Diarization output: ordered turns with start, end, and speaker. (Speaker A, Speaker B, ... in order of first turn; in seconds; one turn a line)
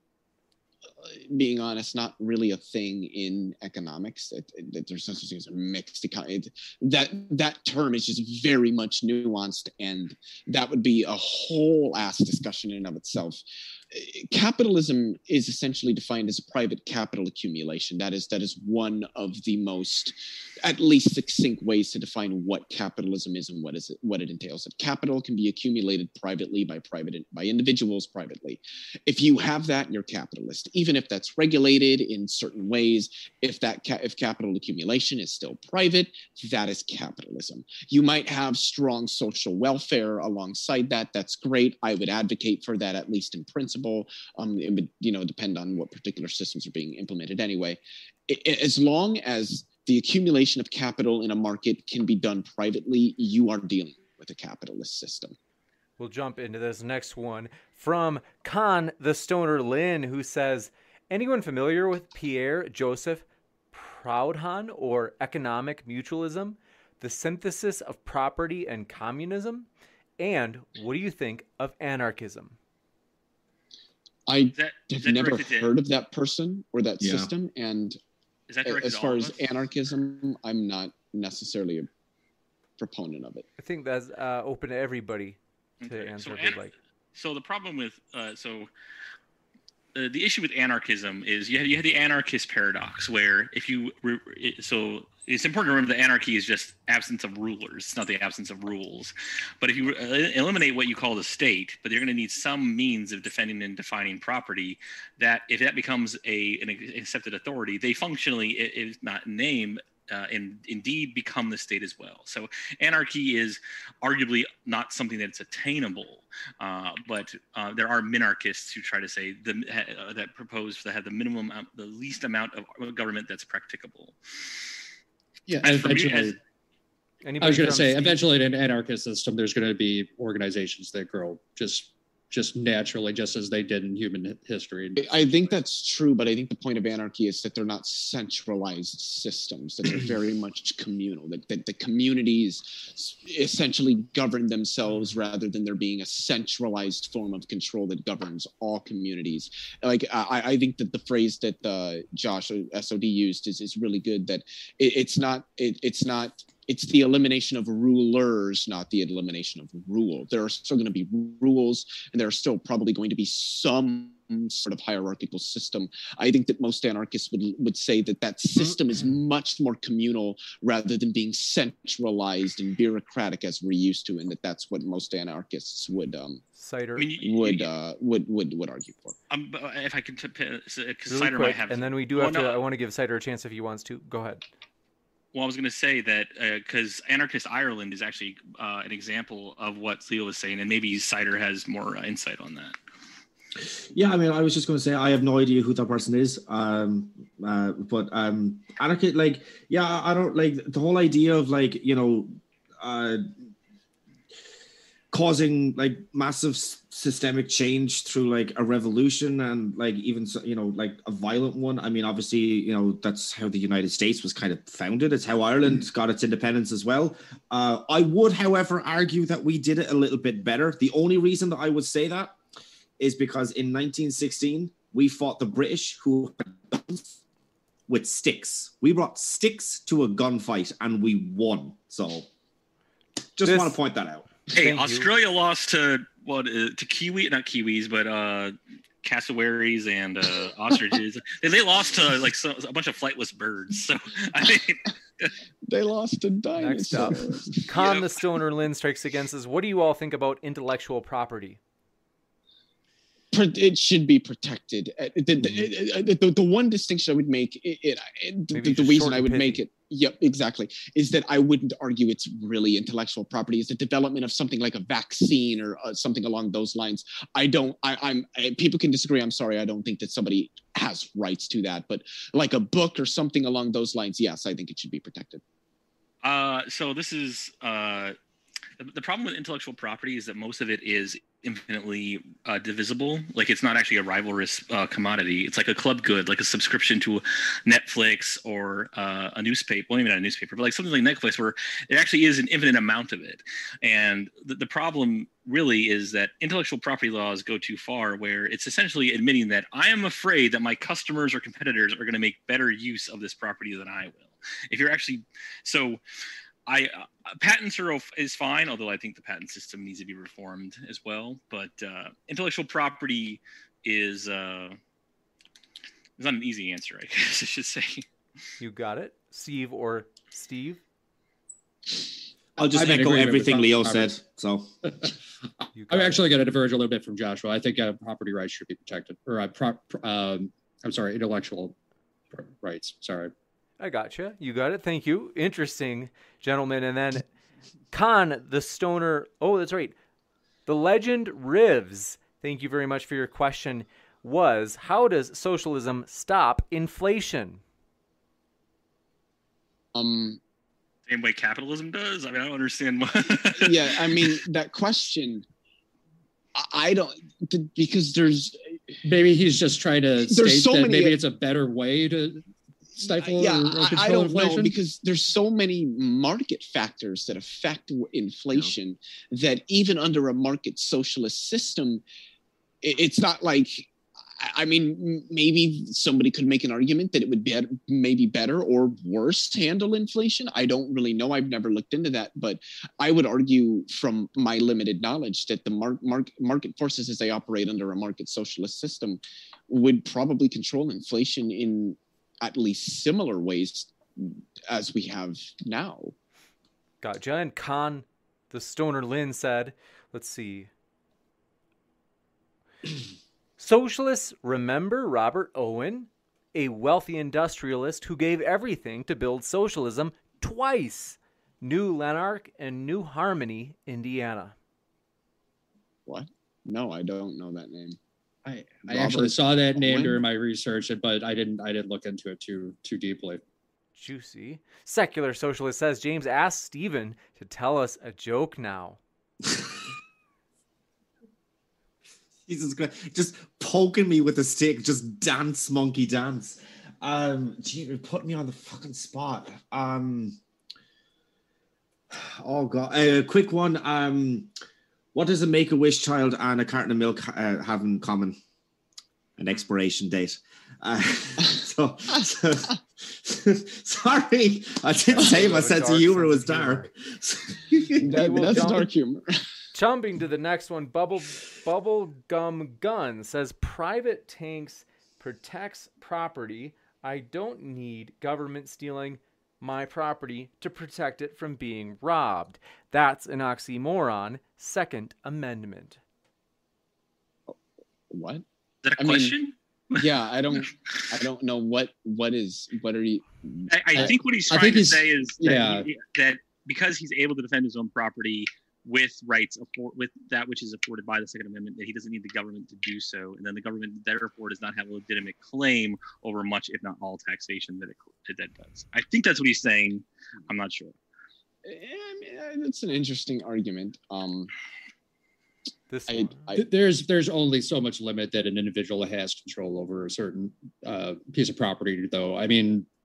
Speaker A: 1.0-55.4
Speaker B: 56.0-69.7
Speaker B: 70.2-72.5
Speaker A: 74.3-78.0
Speaker C: 74.5-75.8
Speaker D: 77.0-77.3
Speaker C: 78.5-79.5
Speaker A: 78.6-81.9
Speaker A: 82.8-83.5
Speaker B: 83.6-86.7
Speaker C: 85.8-86.6
Speaker C: 87.1-88.7
Speaker C: 89.9-124.2
Speaker E: 125.6-126.4
Speaker C: 125.6-126.4
Speaker B: 127.2-128.2
Speaker E: 127.4-135.0
Speaker A: 134.9-176.4
Speaker B: 176.5-177.1
Speaker C: 177.0-177.7
Speaker A: 177.2-179.2
Speaker C: 179.3-182.6
Speaker B: 181.1-184.4
Speaker C: 185.3-192.8
Speaker D: 193.6-203.3
Speaker D: 205.1-222.4
Speaker D: 223.0-227.2
Speaker D: 227.9-232.3
Speaker D: 233.4-234.3
Speaker B: 233.4-233.8
Speaker B: 234.5-235.1
Speaker C: 234.5-245.3
Speaker A: 245.7-247.7
Speaker B: 246.6-251.6
Speaker C: 247.7-248.2
Speaker A: 253.3-275.4
Speaker B: 258.5-259.6
Speaker C: 276.2-278.1
Speaker C: 278.8-306.0
Speaker C: 306.7-314.8
Speaker C: 316.2-318.1
Speaker B: 318.6-320.8
Speaker D: 322.6-324.7
Speaker E: 322.6-324.1
Speaker E: 324.8-325.1
Speaker B: 325.7-326.2
Speaker E: 325.9-331.8
Speaker E: 332.3-333.3
Speaker B: 333.8-337.3
Speaker B: 337.9-339.9
Speaker B: 340.6-347.6
Speaker A: 349.9-350.4
Speaker C: 351.1-354.4
Speaker A: 353.6-355.4
Speaker A: 356.5-358.6
Speaker E: 359.0-364.8
Speaker A: 360.2-361.1
Speaker A: 363.0-372.0
Speaker A: 372.8-396.1
Speaker B: 397.0-400.7
Speaker B: 403.6-414.5
Speaker A: 416.1-418.0
Speaker E: 418.4-423.4
Speaker A: 418.9-420.2
Speaker B: 423.9-429.0
Speaker D: 432.5-440.4
Speaker D: 442.1-444.5
Speaker D: 445.1-448.4
Speaker D: 449.4-458.0
Speaker B: 455.1-456.9
Speaker A: 458.0-459.3
Speaker B: 458.0-458.9
Speaker B: 459.7-476.0
Speaker A: 478.1-478.4
Speaker C: 478.8-480.0
Speaker A: 479.0-479.4
Speaker A: 479.9-484.2
Speaker C: 483.7-500.9
Speaker E: 484.5-485.9
Speaker A: 501.6-504.5
Speaker B: 505.9-506.4
Speaker A: 506.1-506.6
Speaker E: 506.5-512.9